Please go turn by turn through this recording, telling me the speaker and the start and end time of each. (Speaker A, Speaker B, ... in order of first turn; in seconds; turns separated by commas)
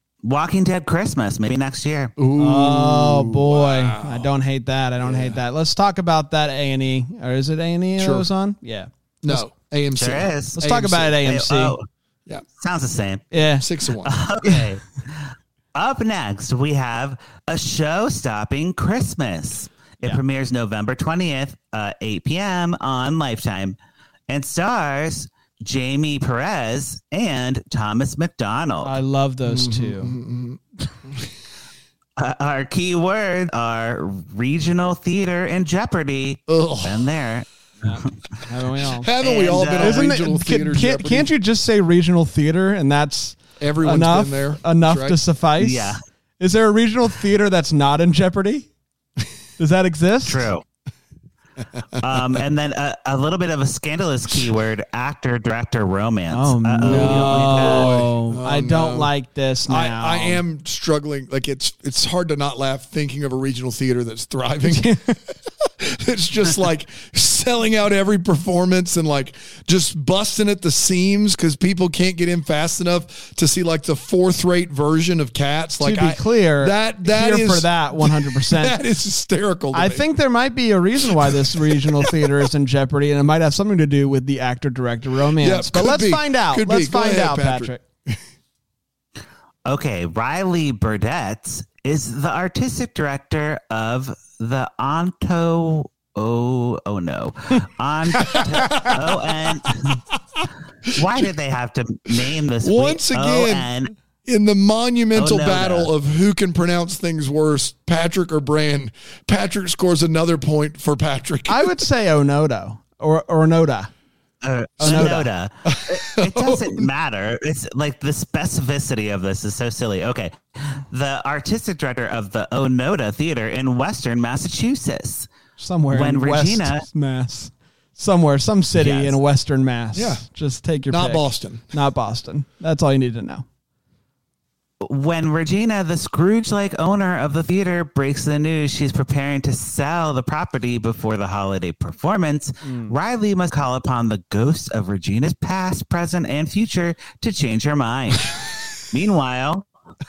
Speaker A: 0.2-2.1, Speaker B: 2.2-4.3, Speaker C: 2.4-9.4, Speaker B: 5.0-5.4, Speaker B: 8.0-8.3, Speaker B: 9.2-11.2, Speaker A: 9.9-10.6, Speaker C: 10.6-11.8, Speaker A: 11.2-11.8, Speaker A: 12.6-13.2, Speaker C: 13.3-13.6, Speaker B: 13.6-14.1, Speaker A: 14.0-23.8, Speaker A: 24.3-29.0, Speaker C: 28.8-30.2, Speaker B: 29.4-31.3, Speaker A: 32.2-38.1, Speaker B: 36.5-37.1, Speaker C: 37.8-39.1, Speaker B: 39.0-41.3, Speaker A: 39.2-40.1, Speaker C: 39.8-48.7, Speaker B: 43.6-45.2, Speaker A: 45.6-46.0, Speaker C: 49.6-50.5, Speaker A: 50.2-50.6, Speaker A: 52.0-58.0, Speaker C: 56.3-60.4, Speaker B: 56.8-59.1, Speaker B: 59.7-80.0, Speaker C: 64.6-65.1, Speaker C: 75.8-78.8, Speaker C: 79.7-87.8, Speaker B: 81.2-82.3, Speaker B: 85.4-88.2, Speaker A: 89.7-100.0, Speaker B: 98.2-100.4, Speaker A: 100.8-103.9, Speaker B: 101.0-101.3, Speaker B: 102.6-103.7, Speaker B: 104.2-111.7, Speaker A: 105.1-105.9, Speaker C: 111.5-113.9, Speaker A: 114.4-125.3, Speaker C: 114.8-115.2, Speaker B: 114.8-116.8, Speaker C: 125.6-133.4, Speaker A: 125.9-126.8, Speaker A: 128.8-129.2, Speaker B: 129.9-130.2, Speaker B: 130.9-131.7, Speaker A: 134.8-149.7, Speaker C: 142.6-142.9